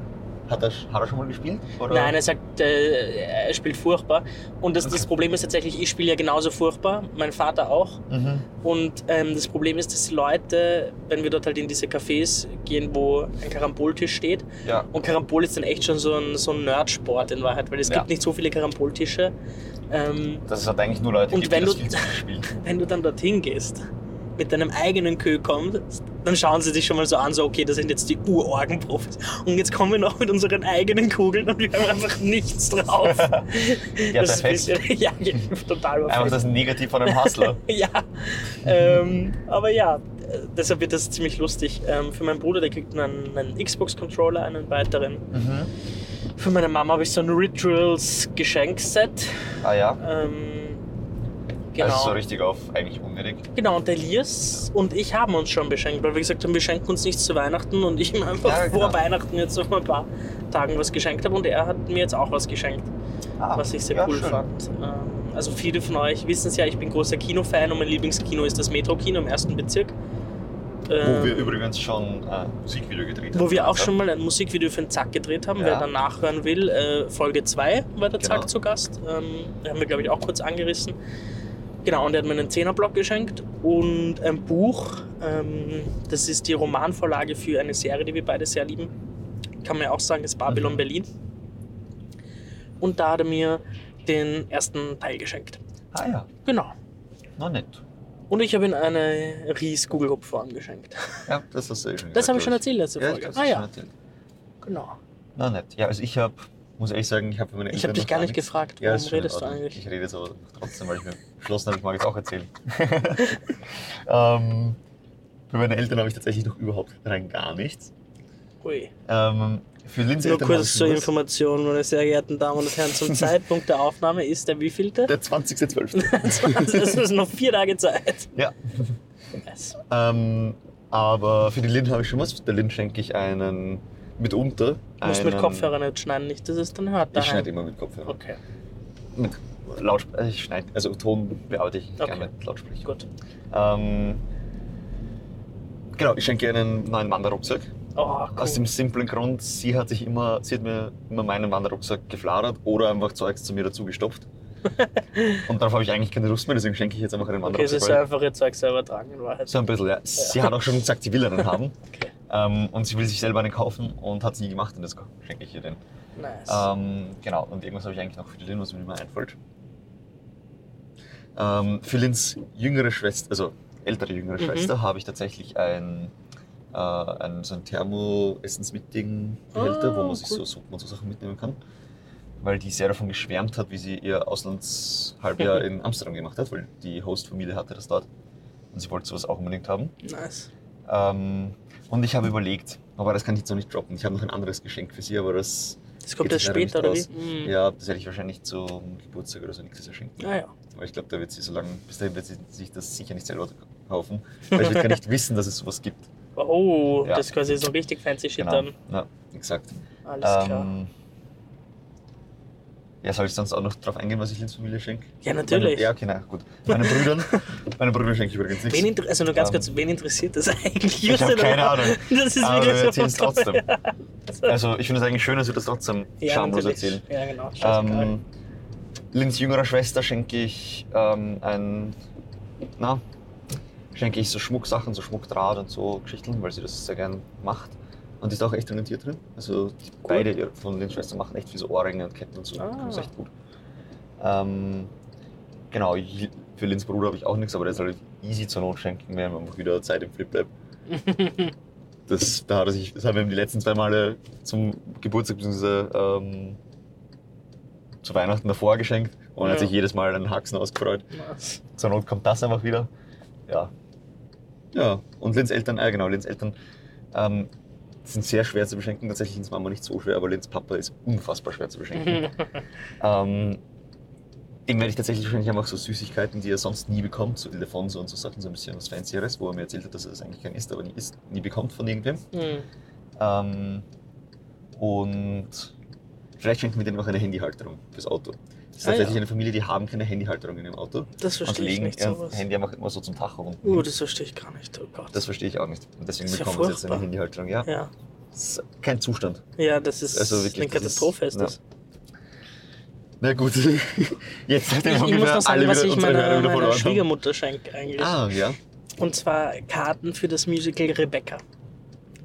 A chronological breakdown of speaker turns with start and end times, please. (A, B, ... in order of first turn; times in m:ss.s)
0:00.5-0:02.1 A
0:01.9-0:08.0 B
0:08.1-0:08.4 A
0:08.6-0:19.3 B
0:19.9-0:20.4 B
0:20.5-0:22.5 A
0:21.3-0:23.8 B
0:24.4-0:36.5 B
0:33.0-0:33.6 A
0:34.1-0:34.8 A
0:36.1-0:37.6 A
0:37.0-0:45.2 B
0:38.7-0:38.9 A
0:45.3-0:45.7 A
0:46.4-0:49.3 B
0:49.6-0:50.0 A
0:50.0-0:50.8 B
0:51.7-0:52.2 B
0:51.8-0:53.5 A
0:53.5-1:02.9 B
0:58.4-0:59.0 A
1:03.4-1:04.5 A
1:03.6-1:09.9 B
1:10.9-1:11.6 B
1:11.0-1:13.9 A
1:13.3-1:21.0 B
1:15.6-1:15.9 A
1:18.2-1:18.5 A
1:21.8-1:28.9 B
1:29.6-1:31.1 B
1:30.5-1:30.8 A
1:32.8-1:35.6 B
1:35.9-1:36.3 A
1:36.4-1:36.7 B
1:37.4-1:37.8 A
1:38.3-1:41.2 B
1:41.3-1:43.9 A
1:42.1-1:43.7 B
1:44.6-1:45.0 B
1:45.4-1:53.5 A
1:47.7-1:49.8 B
1:54.1-1:54.8 A
1:55.5-1:57.9 A
1:58.6-1:58.9 B
1:59.1-2:01.1 A
2:00.2-2:05.1 B
2:05.1-2:07.0 A
2:05.9-2:08.3 B
2:08.3-2:09.0 A
2:09.4-2:09.8 B
2:09.9-2:15.8 A
2:15.0-2:17.5 B
2:17.1-2:18.2 A
2:18.0-2:18.4 B
2:19.2-2:22.9 A
2:22.0-2:22.3 B
2:23.5-2:24.2 A
2:25.9-2:27.7 A
2:27.9-2:28.7 B
2:28.3-2:34.3 A
2:34.8-2:35.4 B
2:35.4-2:38.0 A
2:37.4-2:39.6 B
2:39.5-2:41.7 A
2:40.2-2:40.5 B
2:41.6-2:42.1 B
2:42.3-2:45.8 A
2:46.2-2:46.7 B
2:46.5-2:49.4 A
2:51.4-2:56.1 A
2:54.4-2:54.7 B
2:56.7-3:01.6 A
2:59.5-3:00.4 B
3:02.4-3:08.1 A
3:08.7-3:09.9 A
3:10.0-3:10.5 B
3:10.9-3:26.1 A
3:16.0-3:17.5 B
3:20.2-3:20.5 B
3:24.5-3:25.0 B
3:26.4-3:28.7 B
3:27.0-3:27.3 A
3:28.4-3:30.9 A
3:30.0-3:30.7 B
3:33.0-3:39.7 A
3:35.2-3:35.9 B
3:36.7-3:37.4 B
3:38.6-3:44.6 B
3:41.0-3:43.6 A
3:44.4-3:47.0 A
3:46.2-3:48.1 B
3:47.6-3:48.2 A
3:49.1-3:52.0 A
3:53.9-4:03.3 A
4:02.6-4:03.1 B
4:04.2-4:04.9 A
4:05.7-4:10.5 A
4:10.9-4:11.5 B
4:12.1-4:16.6 A
4:18.0-4:21.0 A
4:19.4-4:19.7 B
4:21.1-4:21.6 B
4:21.8-4:22.9 A
4:24.7-4:26.5 A
4:27.1-4:27.5 A
4:28.0-4:32.4 A
4:32.0-4:32.5 B
4:33.0-4:33.6 A
4:34.7-4:42.2 A
4:42.3-4:42.7 B
4:43.2-4:43.8 A
4:44.8-4:45.7 A
4:46.4-4:53.9 A
4:48.8-4:49.2 B
4:51.2-4:52.4 B
4:53.6-4:55.2 B
4:55.1-4:57.7 A
4:56.2-4:57.1 B
4:57.6-4:57.9 B
4:58.3-4:59.4 A
4:59.6-5:01.6 B
5:00.1-5:01.5 A
5:03.2-5:07.1 A
5:04.8-5:08.2 B
5:08.0-5:08.6 A
5:09.0-5:11.4 B